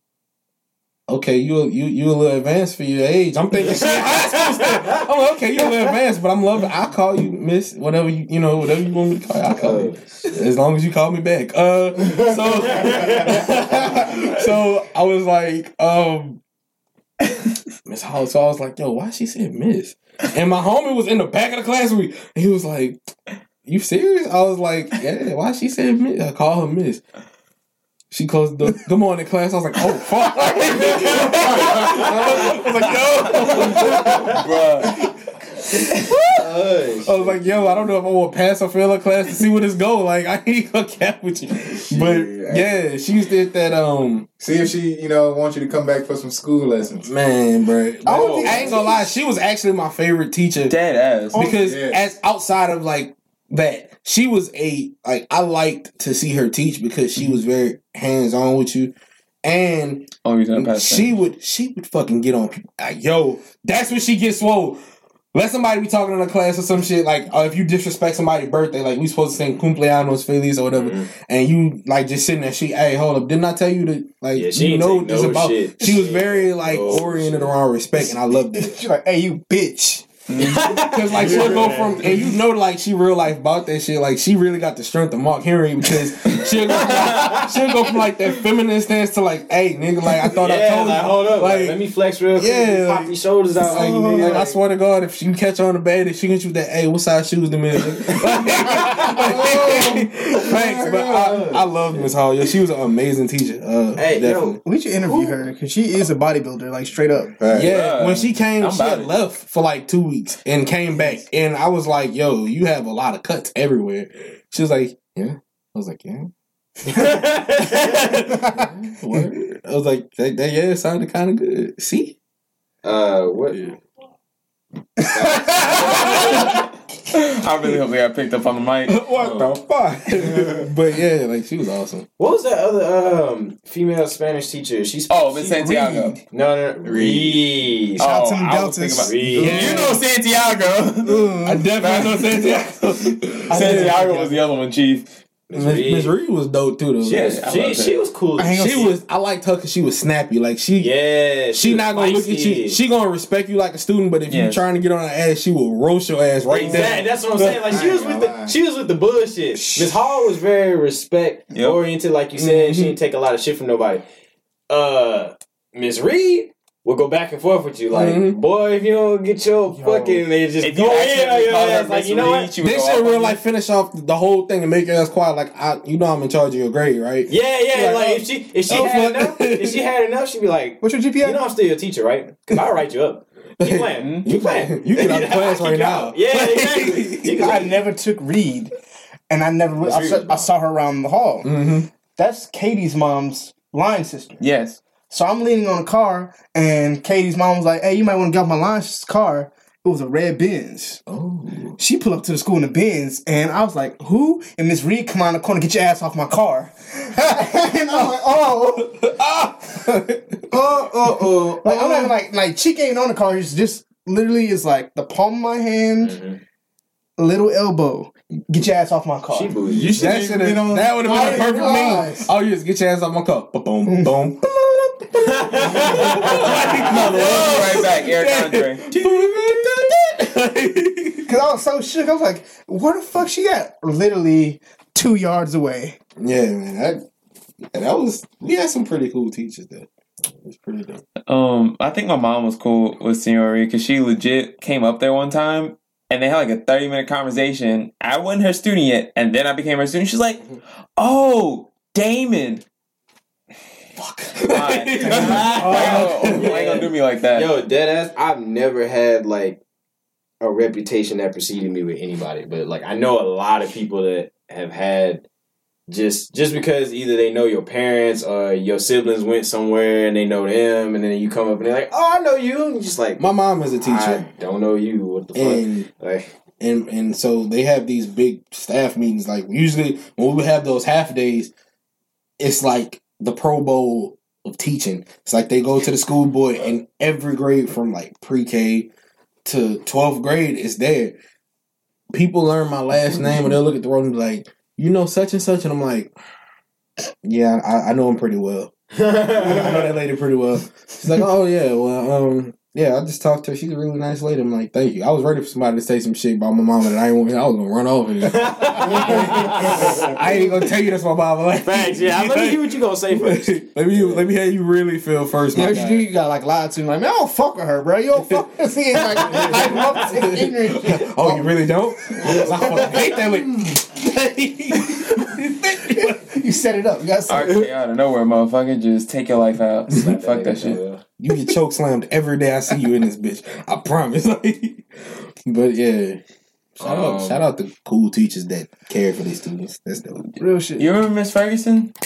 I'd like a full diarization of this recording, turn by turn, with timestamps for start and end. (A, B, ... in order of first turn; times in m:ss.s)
0:01.1-0:16.4 A
0:03.6-0:04.8 B
0:09.5-0:10.2 B
0:12.8-0:13.5 B
0:17.8-0:23.1 A
0:23.6-0:27.0 A
0:28.1-0:34.4 A
0:33.6-0:34.9 C
0:36.3-0:37.9 B
0:37.0-0:44.3 A
0:41.8-0:42.8 D
0:44.4-0:47.1 D
0:47.0-0:50.7 A
0:48.0-0:48.8 B
0:48.0-0:49.2 E
0:50.7-0:51.5 C
0:51.3-0:52.1 D
0:51.3-1:04.8 A
1:00.2-1:01.1 C
1:05.3-1:18.7 A
1:10.7-1:11.1 B
1:14.3-1:17.5 B
1:18.0-1:20.1 E
1:20.3-1:20.7 C
1:20.4-1:22.2 B
1:20.5-1:31.8 A
1:21.1-1:21.8 D
1:26.8-1:27.5 B
1:30.3-1:34.5 B
1:32.4-1:44.6 A
1:33.6-1:34.5 E
1:38.5-1:39.6 B
1:39.4-1:40.0 D
1:40.4-1:42.1 B
1:44.0-1:45.4 B
1:44.6-1:47.4 E
1:47.4-1:47.7 D
1:47.5-1:56.3 A
1:47.6-1:49.1 C
1:50.9-1:51.2 E
1:56.9-1:58.2 B
1:58.4-2:02.2 A
2:02.8-2:03.6 B
2:05.1-2:06.5 B
2:05.6-2:06.3 A
2:05.7-2:06.6 C
2:07.1-2:09.0 C
2:08.9-2:12.0 A
2:09.2-2:09.6 D
2:10.2-2:10.7 D
2:12.2-2:15.4 B
2:15.1-2:16.2 C
2:15.5-2:16.2 D
2:16.3-2:18.0 B
2:16.8-2:17.4 D
2:18.0-2:22.2 C
2:18.0-2:20.0 E
2:19.0-2:19.6 B
2:19.4-2:20.0 A
2:21.0-2:22.1 E
2:21.4-2:24.0 A
2:23.5-2:24.3 E
2:23.5-2:25.1 C
2:23.7-2:24.1 B
2:25.5-2:26.1 B
2:25.5-2:27.4 A
2:27.0-2:28.9 B
2:27.1-2:28.0 C
2:28.4-2:29.0 E
2:28.5-2:30.9 A
2:30.8-2:32.8 B
2:31.5-2:37.5 A
2:34.3-2:34.6 C
2:36.5-2:37.0 C
2:36.5-2:44.0 B
2:37.6-2:38.5 D
2:41.5-2:41.8 C
2:42.3-2:43.0 A
2:44.7-2:52.5 B
2:47.9-2:48.4 A
2:49.7-2:50.2 E
2:50.6-2:53.4 C
2:52.6-2:57.3 A
2:57.3-3:07.8 B
2:57.7-2:58.2 E
2:58.7-2:59.8 A
3:00.8-3:01.4 E
3:03.6-3:07.6 A
3:04.0-3:04.3 C
3:07.4-3:08.7 E
3:09.3-3:11.6 E
3:09.8-3:10.5 B
3:11.4-3:11.9 A
3:12.1-3:14.4 E
3:14.4-3:14.8 C
3:15.1-3:21.0 E
3:21.1-3:21.8 A
3:21.8-3:28.9 E
3:27.9-3:28.2 A
3:28.8-3:30.4 A
3:30.5-3:31.9 D
3:31.6-3:36.2 E
3:36.0-3:36.4 B
3:37.2-3:39.6 E
3:39.3-3:40.2 B
3:39.6-3:41.4 D
3:40.0-3:51.3 A
3:41.0-3:42.3 E
3:43.9-3:44.2 E
3:45.3-3:46.6 B
3:45.7-3:46.2 E
3:46.4-3:48.8 C
3:51.2-3:56.0 E
3:56.2-3:57.0 A
3:57.7-3:59.9 A
4:00.4-4:01.0 A
4:01.3-4:12.6 C
4:14.0-4:16.6 A
4:14.4-4:17.5 C
4:15.5-4:19.6 B
4:20.4-4:25.2 B
4:25.9-4:33.2 B
4:33.2-4:34.2 A
4:33.8-4:36.3 B
4:35.3-4:35.9 A
4:36.6-4:41.5 A
4:42.4-4:48.9 A
4:49.4-4:51.1 A
4:52.1-4:56.1 A
4:57.2-4:58.7 A
4:59.0-4:59.8 B
4:59.2-5:12.6 A
5:08.3-5:10.1 B
5:09.0-5:10.2 E
5:11.6-5:14.3 B
5:13.1-5:16.1 A
5:15.5-5:21.5 E
5:19.1-5:20.1 B
5:19.3-5:26.2 A
5:22.1-5:23.2 E
5:22.4-5:23.0 B
5:25.7-5:27.7 E
5:27.3-5:30.8 C
5:29.9-5:31.0 B
5:31.2-5:36.2 A
5:36.8-5:40.2 A
5:36.8-5:37.4 B
5:40.4-5:40.9 E
5:40.8-5:41.9 C